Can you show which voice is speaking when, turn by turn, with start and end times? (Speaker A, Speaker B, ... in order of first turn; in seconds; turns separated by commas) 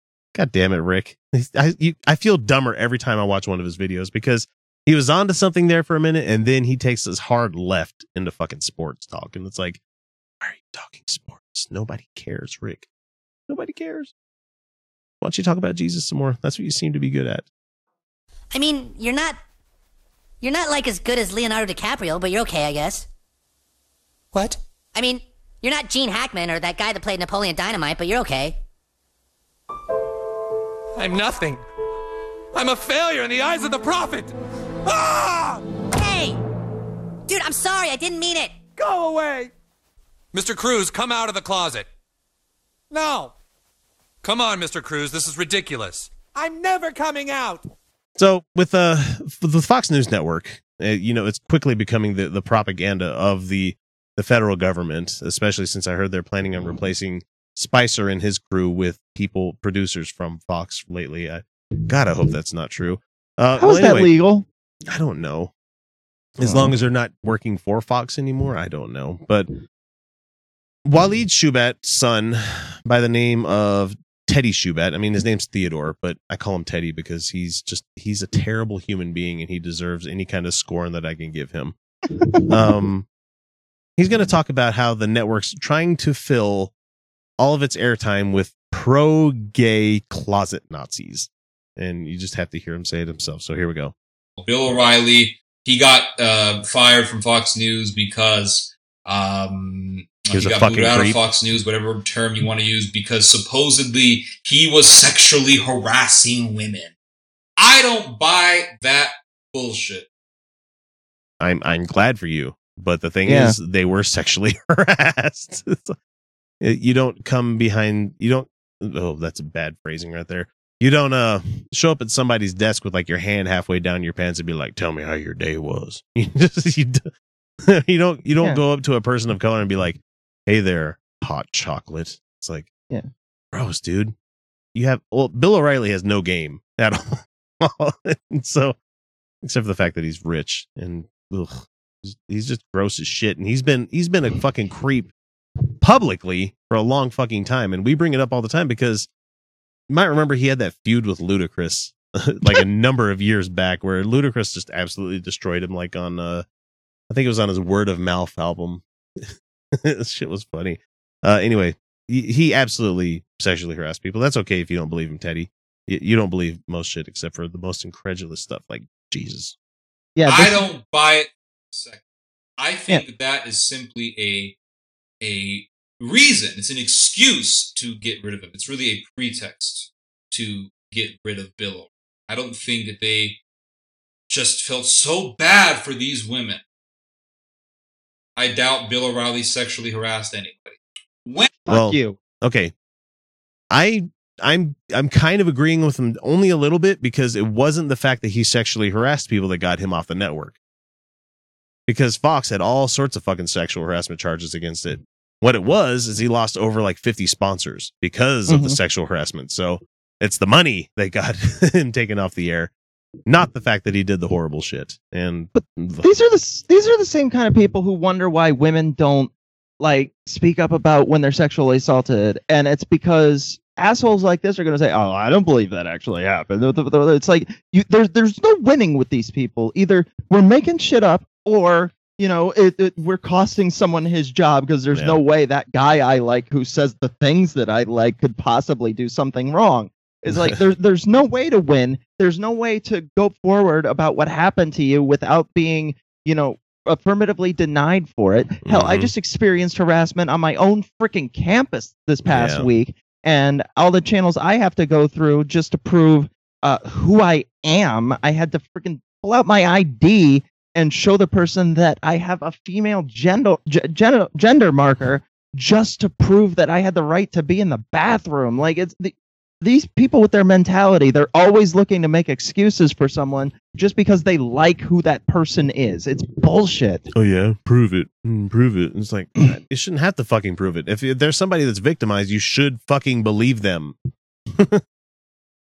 Speaker A: 0.3-9.8, Speaker A: 10.4-12.9, Speaker A: 13.5-14.1, Speaker A: 15.2-17.4, Speaker B: 18.5-19.4, Speaker B: 20.4-23.1, Speaker B: 24.9-28.6, Speaker C: 31.0-31.6, Speaker C: 32.5-34.3, Speaker C: 34.9-35.6, Speaker B: 35.9-36.4, Speaker B: 37.3-38.5, Speaker C: 38.8-39.5, Speaker C: 40.3-41.9, Speaker C: 42.9-43.3, Speaker C: 44.2-47.7, Speaker A: 48.2-64.1, Speaker D: 63.6-64.5, Speaker A: 64.9-65.5, Speaker A: 66.4-69.5, Speaker D: 66.4-66.7, Speaker A: 70.9-81.8, Speaker A: 82.5-83.1, Speaker A: 84.0-86.7, Speaker A: 87.4-93.9, Speaker E: 94.4-106.9, Speaker A: 100.3-101.2, Speaker E: 107.6-110.1, Speaker A: 111.4-116.0, Speaker D: 113.3-113.6, Speaker A: 116.6-127.1, Speaker A: 127.7-132.7, Speaker A: 133.5-134.1, Speaker A: 134.8-138.8, Speaker A: 139.4-145.1, Speaker A: 145.8-149.1, Speaker A: 149.9-156.4, Speaker A: 157.1-169.5, Speaker D: 170.2-170.7, Speaker E: 170.3-172.0, Speaker E: 172.6-174.6, Speaker E: 175.2-183.4, Speaker E: 184.3-186.6, Speaker E: 188.4-191.5, Speaker D: 191.6-192.2, Speaker A: 191.7-192.7, Speaker A: 193.7-200.6, Speaker A: 201.9-212.7, Speaker D: 208.5-208.8, Speaker A: 213.3-216.1, Speaker D: 216.0-219.3, Speaker D: 219.8-277.1, Speaker A: 248.7-249.1, Speaker A: 252.3-252.7, Speaker A: 277.1-284.0, Speaker A: 284.5-284.8